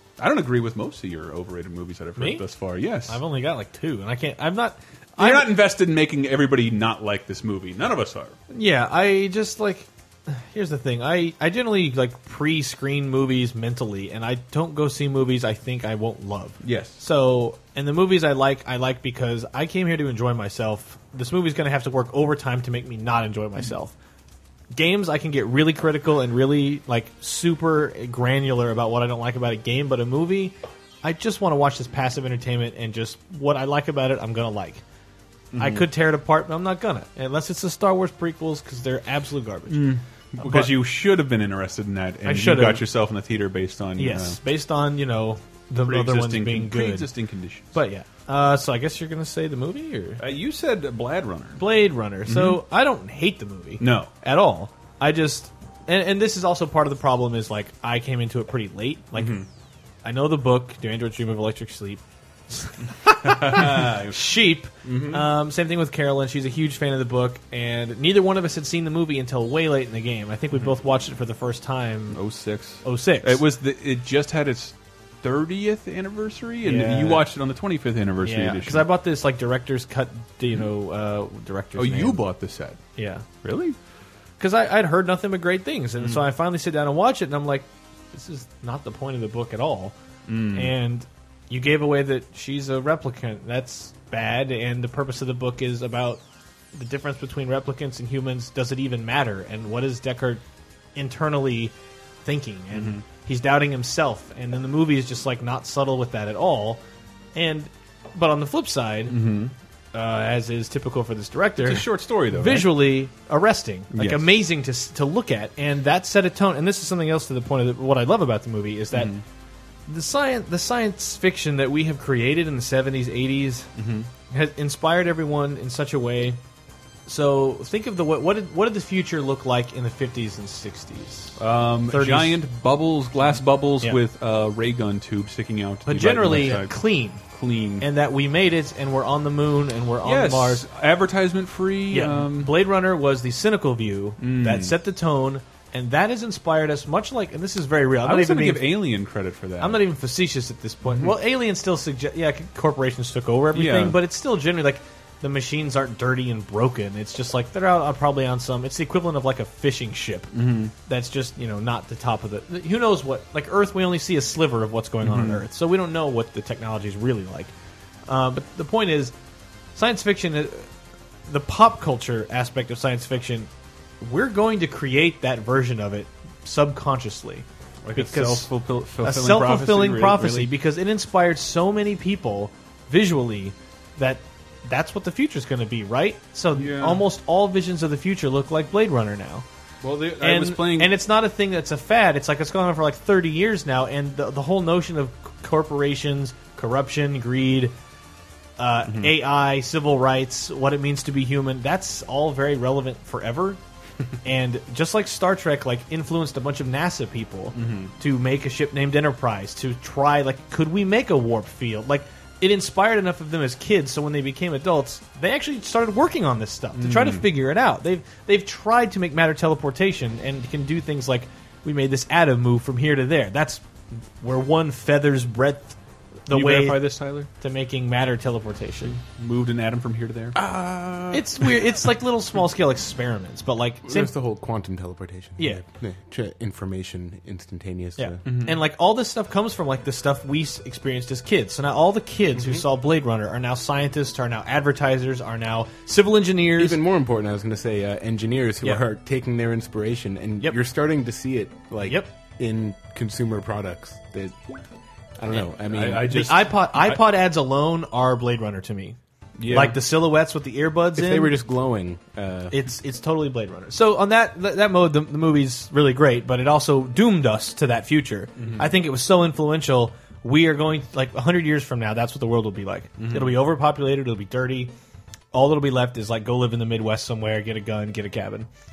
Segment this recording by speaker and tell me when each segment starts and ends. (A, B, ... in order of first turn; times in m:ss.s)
0:00.2-0:03.2 A
0:02.2-0:02.4 B
0:03.1-0:05.5 B
0:05.2-0:08.4 A
0:08.5-0:23.9 B
0:16.6-0:17.0 A
0:24.7-0:34.8 B
0:35.5-0:35.9 A
0:35.6-0:40.7 B
0:39.7-0:44.4 A
0:42.2-0:42.8 B
0:44.0-0:47.1 B
0:45.8-0:47.7 A
0:47.7-0:50.2 B
0:50.2-0:51.7 A
0:51.6-0:59.4 B
0:52.2-0:52.6 A
0:53.8-0:54.1 A
0:59.1-0:59.5 A
1:00.0-1:12.2 B
1:03.1-1:05.3 A
1:12.1-1:18.9 A
1:12.8-1:13.4 B
1:16.6-1:17.2 B
1:18.2-1:22.2 B
1:21.7-1:22.8 A
1:23.0-1:23.2 B
1:23.4-1:23.8 A
1:24.4-1:29.9 B
1:30.3-1:30.7 A
1:30.5-1:36.2 B
1:36.7-1:40.4 B
1:40.9-1:46.8 B
1:42.7-1:43.0 A
1:47.3-1:49.2 B
1:49.1-1:49.5 A
1:49.9-1:59.1 B
1:51.6-1:52.9 A
1:53.9-1:54.4 A
1:58.9-1:59.2 A
1:59.9-2:03.7 B
2:03.8-2:04.1 A
2:04.3-2:06.4 B
2:07.1-2:12.4 B
2:11.4-2:17.8 A
2:15.8-2:17.2 B
2:17.8-2:20.6 B
2:20.0-2:22.7 A
2:21.9-2:28.8 B
2:24.2-2:24.8 A
2:28.0-2:29.9 A
2:29.6-2:40.3 B
2:30.9-2:31.2 A
2:33.5-2:34.0 A
2:40.3-2:40.7 A
2:40.8-2:47.5 B
2:45.0-2:45.4 A
2:48.1-2:49.1 B
2:49.7-2:50.7 B
2:51.3-2:58.5 B
2:57.8-3:00.5 A
2:59.0-3:09.4 B
3:06.5-3:07.0 A
3:09.8-3:11.0 A
3:10.2-3:17.7 B
3:18.6-3:23.6 B
3:18.9-3:19.1 A
3:24.2-3:43.6 B
3:27.5-3:27.9 A
3:36.7-3:37.3 A
3:44.2-3:49.0 B
3:46.3-3:47.3 A
3:48.8-3:51.9 A
3:50.4-3:51.2 C
3:51.1-3:54.1 B
3:53.8-3:58.2 C
3:55.4-3:55.6 B
3:58.0-4:06.8 B
3:58.2-3:58.6 A
4:02.4-4:02.6 C
4:06.6-4:14.4 C
4:11.8-4:12.1 B
4:15.2-4:16.2 C
4:15.4-4:17.0 A
4:16.1-4:19.0 B
4:19.4-4:19.8 A
4:19.5-4:21.4 B
4:20.9-4:22.6 C
4:22.5-4:34.7 B
4:28.4-4:28.7 A
4:33.0-4:33.4 A
4:35.3-4:38.5 B